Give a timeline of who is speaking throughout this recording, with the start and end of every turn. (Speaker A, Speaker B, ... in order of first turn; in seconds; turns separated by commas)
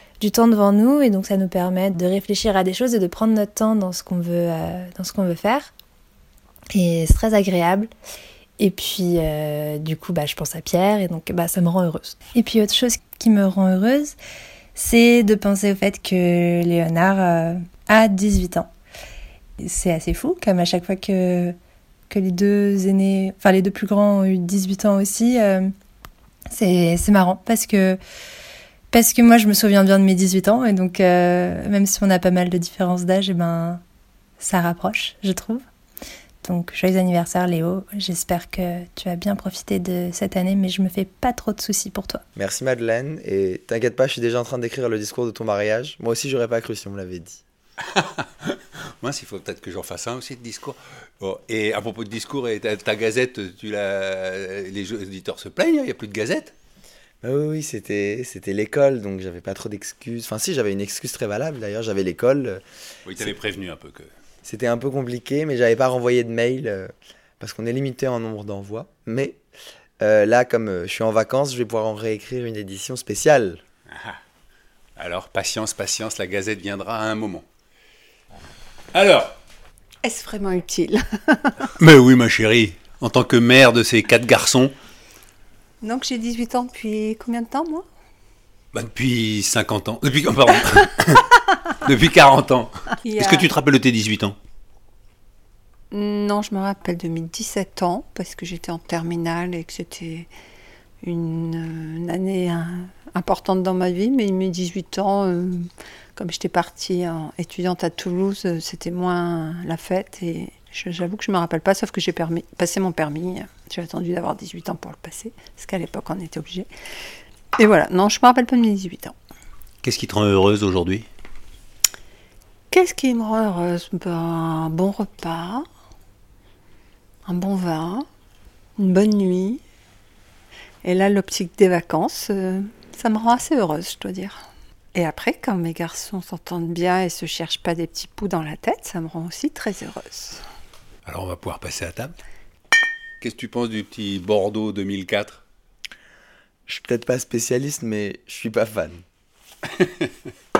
Speaker A: 0.2-5.7, Speaker A: 6.7-7.9, Speaker A: 8.6-14.2, Speaker A: 14.8-18.7, Speaker A: 19.6-21.6, Speaker A: 22.1-25.7, Speaker A: 26.5-28.0, Speaker A: 28.9-33.8, Speaker A: 34.4-35.6, Speaker A: 36.4-42.2, Speaker B: 42.4-47.4, Speaker C: 48.0-56.5, Speaker B: 57.2-62.6, Speaker C: 63.1-64.1, Speaker B: 64.4-69.4, Speaker B: 70.0-73.6, Speaker C: 75.0-77.5, Speaker C: 78.9-79.3, Speaker D: 80.0-81.6, Speaker C: 81.8-84.8, Speaker D: 85.8-87.9, Speaker C: 88.7-94.4, Speaker D: 93.0-93.5, Speaker D: 95.9-100.3, Speaker D: 101.0-116.7, Speaker D: 117.6-119.2, Speaker C: 119.8-121.1, Speaker D: 122.7-125.7, Speaker D: 127.2-128.1, Speaker D: 128.8-129.6, Speaker D: 130.8-140.4, Speaker C: 141.1-142.1, Speaker C: 143.2-145.4, Speaker B: 146.7-149.0, Speaker C: 149.8-150.1